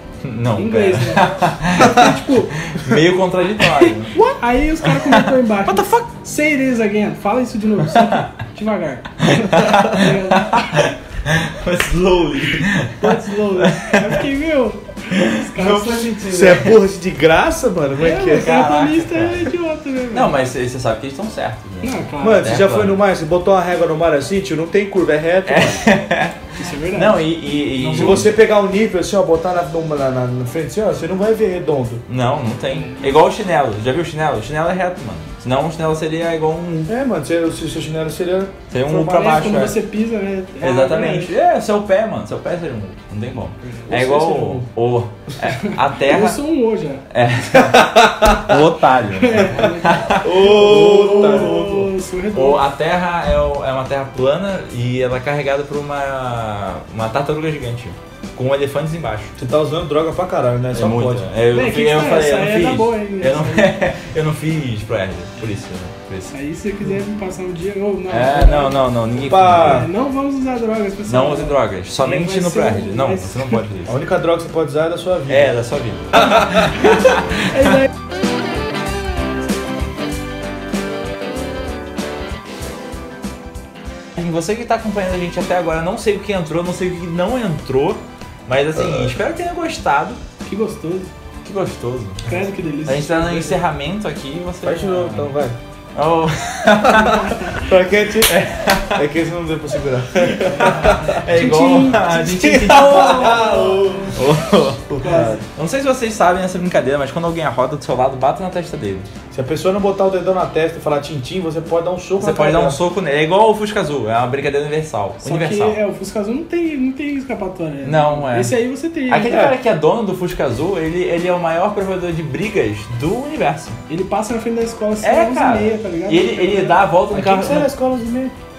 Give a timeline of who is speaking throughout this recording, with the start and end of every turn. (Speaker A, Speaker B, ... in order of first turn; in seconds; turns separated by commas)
Speaker A: 0.2-4.2, Speaker B: 0.6-2.7, Speaker B: 3.8-10.9, Speaker A: 4.8-6.0, Speaker A: 7.9-8.2, Speaker A: 9.2-14.2, Speaker B: 13.0-16.5, Speaker A: 15.1-16.8, Speaker C: 16.3-18.6, Speaker B: 18.0-20.4, Speaker A: 18.3-19.5, Speaker A: 20.1-23.0, Speaker B: 21.8-22.6, Speaker C: 22.2-25.8, Speaker A: 25.4-28.4, Speaker B: 26.6-27.2, Speaker C: 27.8-32.0, Speaker A: 32.1-36.9, Speaker B: 32.7-33.1, Speaker C: 36.9-38.5, Speaker A: 38.7-39.8, Speaker B: 38.9-41.4, Speaker A: 40.6-46.4, Speaker B: 43.6-44.0, Speaker C: 43.9-44.7, Speaker B: 45.4-47.0, Speaker A: 47.1-51.7, Speaker C: 47.8-48.5, Speaker B: 49.1-52.6, Speaker C: 50.2-51.9, Speaker A: 52.3-59.3, Speaker C: 59.4-61.2, Speaker A: 60.7-66.3, Speaker B: 61.5-63.8, Speaker B: 66.3-68.8, Speaker A: 68.1-69.9, Speaker C: 69.2-69.9, Speaker B: 69.4-73.6, Speaker A: 71.1-74.0, Speaker C: 73.9-75.5, Speaker A: 75.3-77.7, Speaker A: 84.2-90.2, Speaker C: 88.8-89.1, Speaker B: 90.4-91.1, Speaker A: 91.4-95.3, Speaker B: 92.2-93.6, Speaker C: 94.6-95.6, Speaker A: 95.9-97.4, Speaker B: 96.8-97.7, Speaker C: 97.6-101.2, Speaker A: 98.2-99.0, Speaker A: 100.2-109.1, Speaker B: 100.5-104.1, Speaker C: 102.3-104.1, Speaker B: 105.0-105.4, Speaker C: 105.0-105.4, Speaker C: 109.3-112.8, Speaker A: 112.2-115.8, Speaker B: 115.2-119.5, Speaker A: 117.8-118.6, Speaker A: 119.1-123.8, Speaker C: 119.2-119.5, Speaker B: 123.9-126.8, Speaker A: 125.0-127.7, Speaker C: 127.1-128.3